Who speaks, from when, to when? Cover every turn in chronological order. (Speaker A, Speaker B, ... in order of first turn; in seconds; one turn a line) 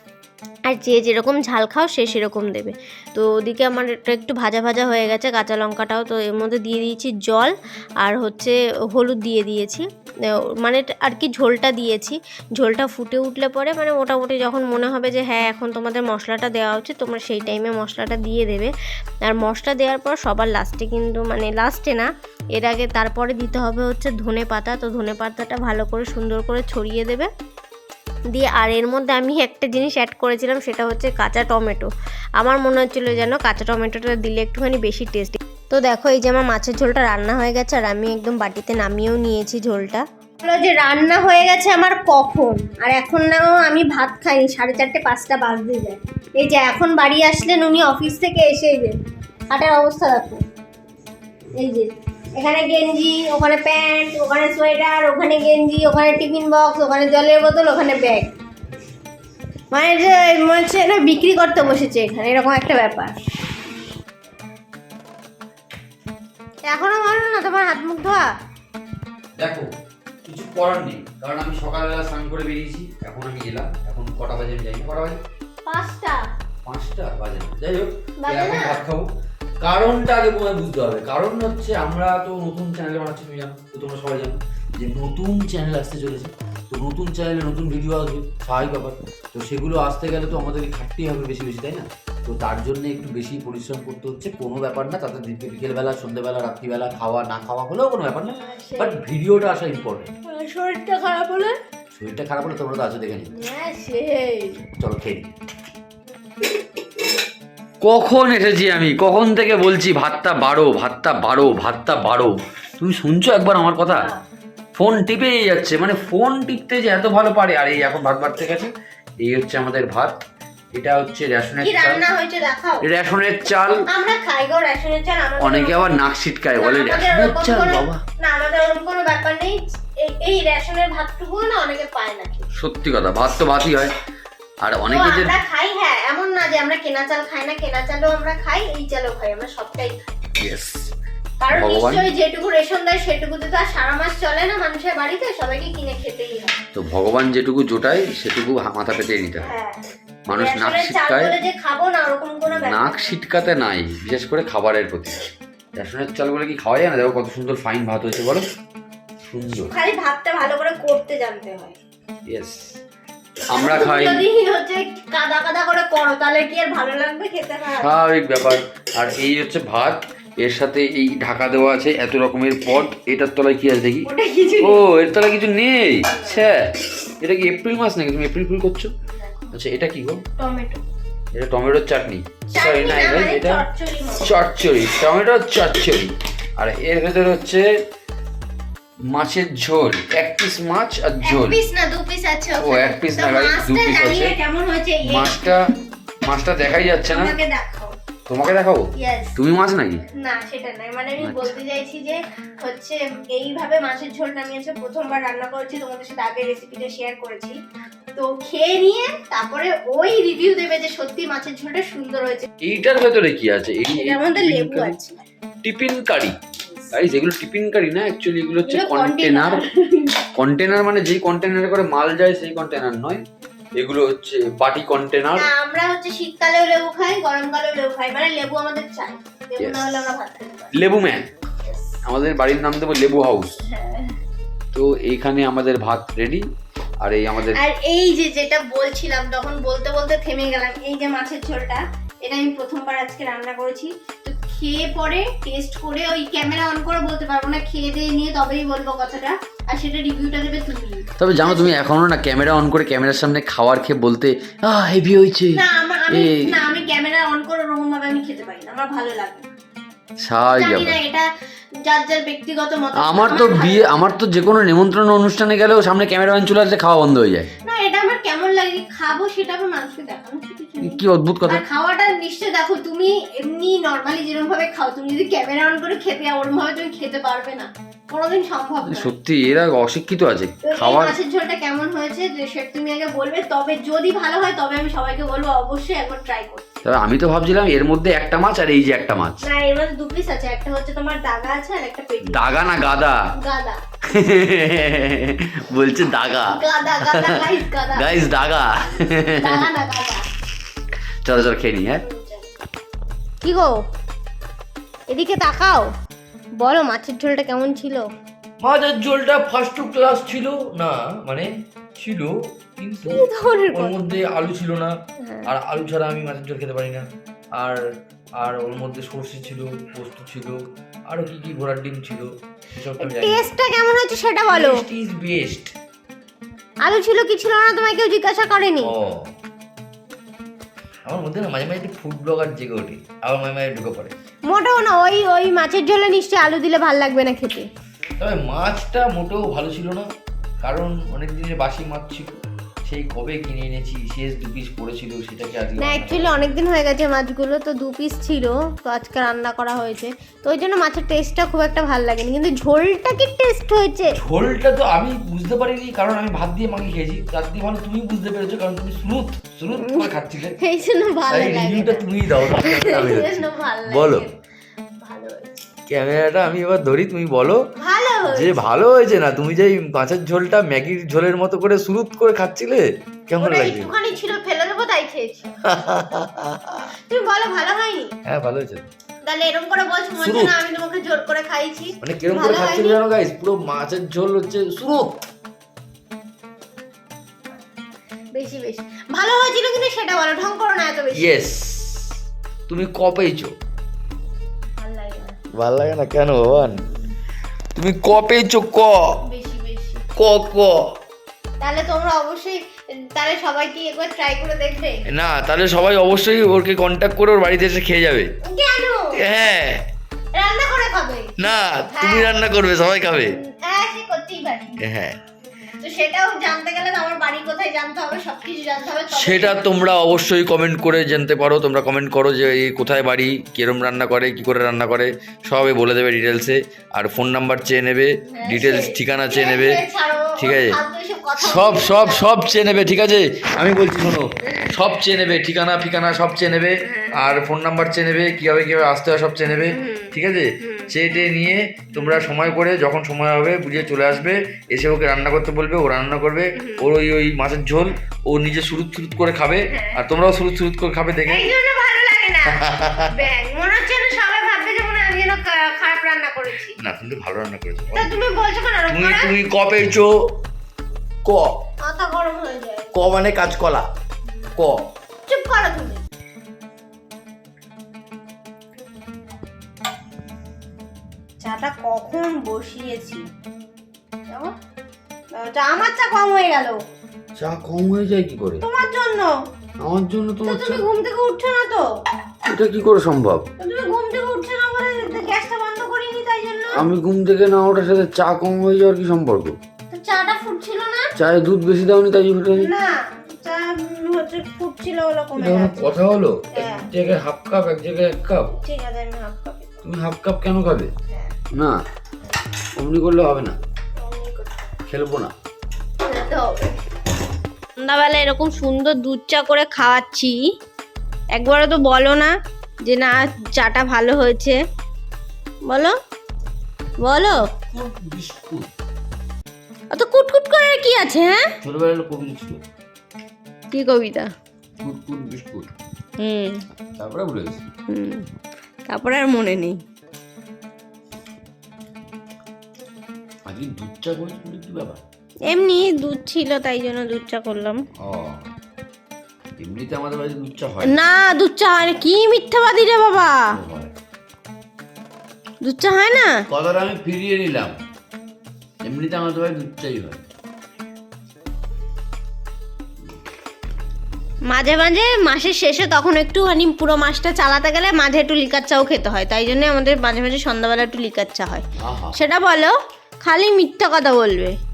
Speaker A: 0.7-9.8
Speaker A: 10.6-18.7
Speaker A: 19.2-27.3
Speaker A: 28.3-31.9
Speaker A: 32.4-48.9
Speaker A: 49.5-50.4
Speaker A: 51.6-58.3
Speaker A: 59.7-63.1
Speaker A: 66.7-68.2
Speaker B: 69.4-69.7
Speaker B: 70.2-75.2
Speaker A: 75.7-76.2
Speaker B: 76.6-79.1
Speaker A: 78.2-78.8
Speaker B: 79.6-100.1
Speaker A: 98.4-99.0
Speaker A: 100.2-101.6
Speaker B: 101.9-103.3
Speaker A: 103.3-104.6
Speaker B: 104.8-105.3
Speaker B: 107.8-114.1
Speaker A: 113.9-114.2
Speaker B: 114.7-120.1
Speaker B: 120.7-122.0
Speaker A: 121.6-122.8
Speaker B: 122.8-123.8
Speaker A: 123.9-125.9
Speaker B: 125.4-128.0
Speaker A: 126.6-132.4
Speaker B: 132.5-133.9
Speaker B: 134.6-135.3
Speaker A: 134.9-139.9
Speaker B: 140.4-140.9
Speaker A: 141.4-146.6
Speaker B: 141.5-142.1
Speaker B: 146.7-149.5
Speaker A: 149.4-149.8
Speaker B: 150.3-151.3
Speaker A: 150.3-153.1
Speaker B: 152.5-155.2
Speaker B: 155.8-158.4
Speaker B: 159.2-159.7
Speaker A: 159.7-161.8
Speaker B: 162.3-162.7
Speaker B: 163.5-164.2
Speaker A: 163.5-167.9
Speaker B: 167.8-174.1
Speaker A: 174.0-174.8
Speaker B: 174.6-178.9
Speaker A: 176.1-176.4
Speaker A: 179.1-179.5
Speaker B: 179.5-180.2
Speaker A: 180.4-180.8
Speaker B: 181.3-183.6
Speaker A: 182.5-184.3
Speaker B: 184.2-187.7
Speaker B: 189.1-191.6
Speaker A: 191.2-195.4
Speaker B: 192.6-194.4
Speaker B: 195.0-195.7
Speaker B: 196.2-197.3
Speaker A: 197.0-197.9
Speaker B: 198.3-200.0
Speaker A: 198.9-199.3
Speaker A: 200.2-207.6
Speaker B: 201.2-201.5
Speaker A: 208.2-212.5
Speaker B: 212.6-215.0
Speaker A: 213.9-215.2
Speaker B: 215.6-216.3
Speaker B: 216.9-219.6
Speaker A: 218.6-220.2
Speaker B: 220.3-223.2
Speaker B: 223.8-225.5
Speaker A: 225.3-230.8
Speaker B: 229.6-230.1
Speaker B: 230.7-231.3
Speaker B: 232.0-233.6
Speaker A: 233.6-234.1
Speaker B: 234.7-236.4
Speaker B: 237.0-237.6
Speaker A: 237.5-251.8
Speaker B: 251.2-256.8
Speaker A: 255.5-259.4
Speaker B: 260.2-261.0
Speaker A: 260.4-261.2
Speaker A: 261.8-264.0
Speaker B: 263.0-267.5
Speaker A: 267.6-279.1
Speaker B: 270.8-271.6
Speaker B: 278.8-281.2
Speaker A: 280.6-286.8
Speaker B: 286.8-289.4
Speaker A: 289.4-292.6
Speaker B: 292.2-293.2
Speaker A: 293.3-293.8
Speaker B: 294.1-299.7
Speaker A: 296.4-298.2
Speaker A: 299.4-300.2
Speaker B: 301.2-302.0
Speaker A: 302.0-302.4
Speaker A: 303.4-303.8
Speaker A: 305.1-305.9
Speaker A: 306.6-308.1
Speaker C: 308.6-311.5
Speaker C: 312.0-314.9
Speaker A: 313.0-313.9
Speaker C: 315.5-317.0
Speaker C: 318.4-323.5
Speaker A: 323.0-324.8
Speaker C: 324.5-325.7
Speaker A: 326.8-328.9
Speaker C: 328.8-329.3
Speaker C: 331.1-334.1
Speaker A: 334.5-337.6
Speaker C: 338.2-340.1
Speaker C: 340.6-342.4
Speaker B: 342.9-343.2
Speaker C: 342.9-344.3
Speaker B: 344.3-346.4
Speaker A: 345.8-354.2
Speaker C: 354.3-359.5
Speaker B: 354.3-356.0
Speaker B: 359.4-360.5
Speaker A: 359.8-360.1
Speaker A: 360.6-364.3
Speaker C: 361.3-364.2
Speaker A: 365.0-365.5
Speaker C: 365.9-367.6
Speaker A: 367.8-368.6
Speaker C: 368.3-373.9
Speaker A: 373.4-375.5
Speaker C: 375.6-376.8
Speaker A: 377.1-378.1
Speaker C: 378.2-378.9
Speaker A: 379.2-383.0
Speaker C: 380.2-380.6
Speaker C: 382.0-385.1
Speaker A: 388.3-391.3
Speaker C: 391.1-392.1
Speaker C: 392.7-393.5
Speaker A: 394.8-395.4
Speaker C: 395.5-396.8
Speaker C: 397.8-399.1
Speaker A: 399.2-400.0
Speaker C: 400.1-400.9
Speaker A: 401.6-405.0
Speaker C: 405.1-408.3
Speaker A: 408.4-409.2
Speaker C: 409.2-409.8
Speaker A: 410.3-411.3
Speaker C: 411.4-413.3
Speaker A: 411.9-412.3
Speaker A: 413.3-414.8
Speaker C: 414.8-415.2
Speaker A: 415.8-419.6
Speaker C: 419.1-421.4
Speaker B: 420.9-427.3
Speaker C: 422.8-423.3
Speaker C: 427.1-429.8
Speaker A: 428.3-432.4
Speaker B: 428.5-428.9
Speaker B: 431.5-432.9
Speaker C: 431.5-432.0
Speaker C: 432.6-434.2
Speaker C: 434.8-451.5
Speaker A: 436.9-437.3
Speaker A: 439.7-440.9
Speaker A: 441.9-442.2
Speaker A: 446.5-446.9
Speaker A: 449.7-450.0
Speaker A: 451.3-456.8
Speaker C: 452.6-453.1
Speaker C: 456.8-458.1
Speaker A: 457.9-459.3
Speaker C: 458.9-460.1
Speaker C: 461.2-461.5
Speaker A: 461.8-463.1
Speaker C: 462.9-463.9
Speaker C: 464.6-464.8
Speaker A: 465.3-466.0
Speaker A: 471.4-473.2
Speaker A: 474.3-474.5
Speaker A: 475.3-476.8
Speaker B: 477.4-478.6
Speaker A: 478.6-479.3
Speaker B: 479.8-480.8
Speaker A: 480.4-481.9
Speaker B: 482.4-483.4
Speaker A: 483.6-486.9
Speaker B: 486.7-489.6
Speaker A: 489.9-491.1
Speaker B: 491.1-492.7
Speaker A: 492.5-495.9
Speaker B: 495.4-498.6
Speaker A: 496.5-496.9
Speaker A: 498.6-499.8
Speaker B: 499.8-500.9
Speaker B: 502.8-503.6
Speaker A: 504.0-504.7
Speaker B: 504.9-505.3
Speaker A: 506.0-506.7
Speaker A: 507.8-510.4
Speaker A: 511.3-514.6
Speaker A: 515.6-515.9
Speaker A: 517.0-517.4
Speaker B: 517.7-518.7
Speaker A: 519.9-521.4
Speaker B: 521.6-522.6
Speaker A: 523.7-524.3
Speaker B: 524.8-525.7
Speaker A: 526.2-526.6
Speaker B: 526.9-527.6
Speaker A: 527.9-528.2
Speaker A: 528.9-529.8
Speaker B: 533.5-535.0
Speaker A: 535.5-537.8
Speaker B: 538.0-538.5
Speaker B: 539.6-541.0
Speaker A: 540.8-543.5
Speaker B: 543.5-543.9
Speaker A: 545.6-546.4
Speaker B: 546.5-547.7
Speaker B: 548.8-550.2
Speaker A: 554.5-564.6
Speaker B: 561.8-562.2